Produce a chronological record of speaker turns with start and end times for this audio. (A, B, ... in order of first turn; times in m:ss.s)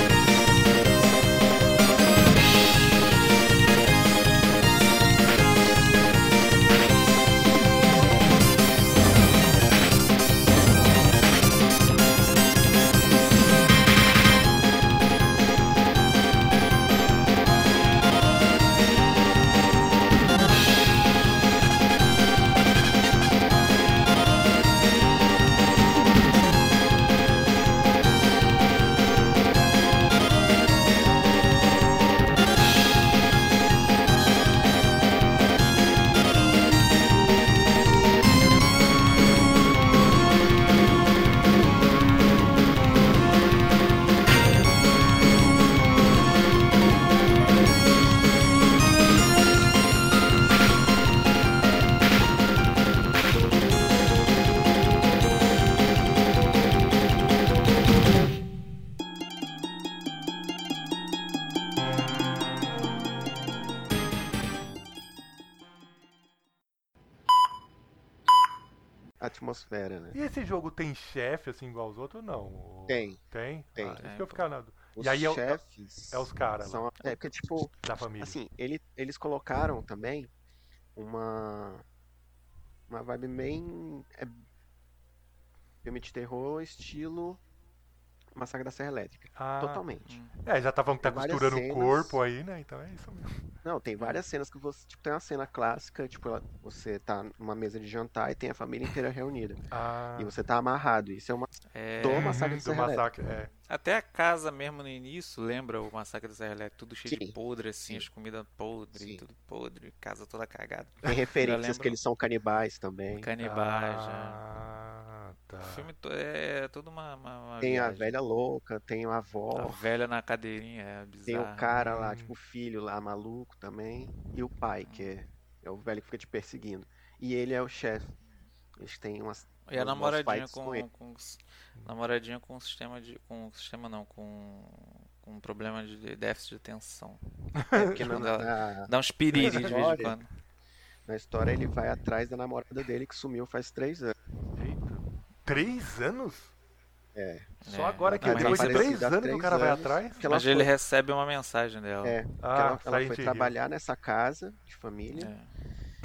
1:09.2-1:10.2 A
1:10.1-1:15.6 B
1:12.9-1:13.2 A
1:13.8-1:14.0 A
1:14.0-1:14.5 C
1:15.0-1:20.3 A
1:16.1-1:17.2 B
1:17.8-1:18.4 B
1:21.0-1:21.8 A
1:22.9-1:24.4 A
1:25.8-1:27.4 A
1:28.4-1:30.2 A
1:29.4-1:29.8 B
1:30.1-1:30.3 C
1:30.4-1:33.4 B
1:31.0-1:32.2 A
1:33.6-1:39.6 A
1:39.7-1:40.4 B
1:40.2-1:43.0 A
1:41.7-1:42.4 C
1:42.1-1:43.5 B
1:43.7-1:52.0 C
1:47.1-1:48.1 A
1:49.0-1:49.2 A
1:51.0-1:53.3 A
1:53.1-1:54.4 C
1:53.4-1:55.9 B
1:55.6-1:58.2 C
1:57.6-1:59.8 A
1:59.5-2:01.9 C
2:01.3-2:08.1 A
2:01.7-2:02.3 B
2:04.8-2:05.1 C
2:08.8-2:10.8 A
2:09.7-2:17.2 C
2:17.6-2:18.2 B
2:17.8-2:20.2 A
2:17.9-2:20.3 C
2:19.3-2:20.1 B
2:21.0-2:24.2 A
2:24.6-2:26.5 B
2:27.1-2:27.5 A
2:27.6-2:29.0 C
2:27.7-2:30.5 B
2:28.1-2:30.7 A
2:30.2-2:32.2 C
2:32.0-2:35.3 A
2:32.4-2:33.6 B
2:35.1-2:35.5 C